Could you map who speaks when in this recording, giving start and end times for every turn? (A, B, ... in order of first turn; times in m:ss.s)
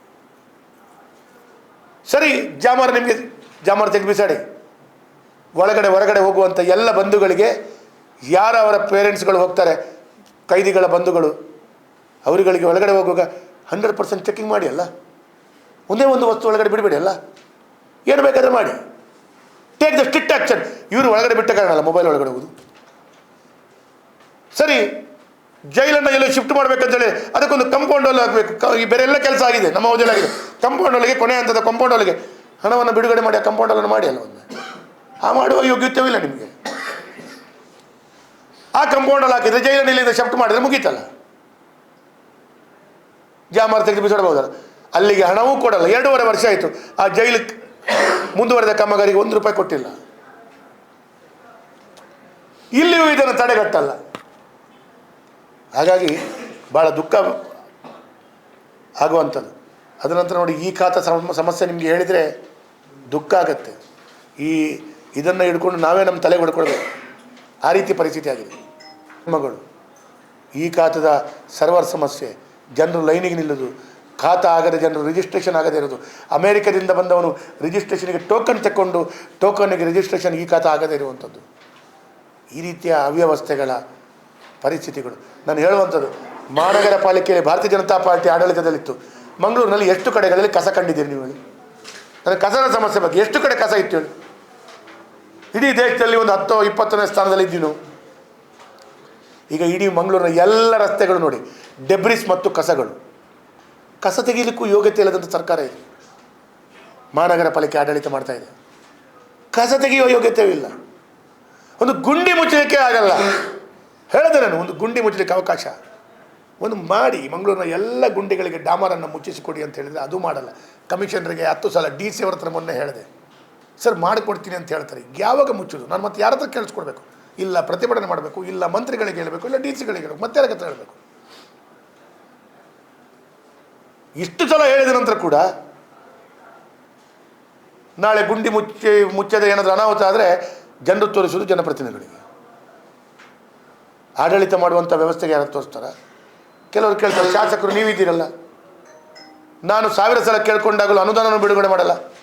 0:02.1-0:04.4 A
0:05.6-0:07.5 A
0:08.3-0:09.8 A
0:10.5-0:11.4 A
0:12.2-0:14.9 A
0:15.9-0:17.2 A
0:18.1-0:18.8 A
0:19.8-0:22.5 A
0:24.6-0:24.9 A
0:25.7-0:34.4 A
0:35.2-0:36.5 A
0:38.8-0:41.1 A
0:43.5-0:49.9 A
0:52.7-0:54.0 A
0:55.8-0:56.2 A
0:56.7-0:57.4 A
0:59.0-0:59.5 A
1:00.0-1:02.3 A
1:03.1-1:03.8 A
1:04.4-1:06.8 A
1:07.6-1:08.5 A
1:09.3-1:09.6 A
1:10.6-1:21.4 A
1:22.6-1:23.8 A
1:24.6-1:31.4 A
1:32.2-1:34.1 A
1:35.5-1:37.8 A
1:39.5-1:43.0 A
1:44.0-1:45.8 A
1:47.1-1:48.5 A
1:49.5-1:50.7 A
1:51.8-1:53.5 A
1:54.1-1:55.8 A
1:56.6-2:03.1 A
2:03.8-2:11.0 A
2:14.2-2:15.5 A
2:18.0-2:20.3 A
2:20.9-2:22.2 A
2:24.2-2:25.9 A
2:26.7-2:28.3 A
2:29.7-2:32.0 A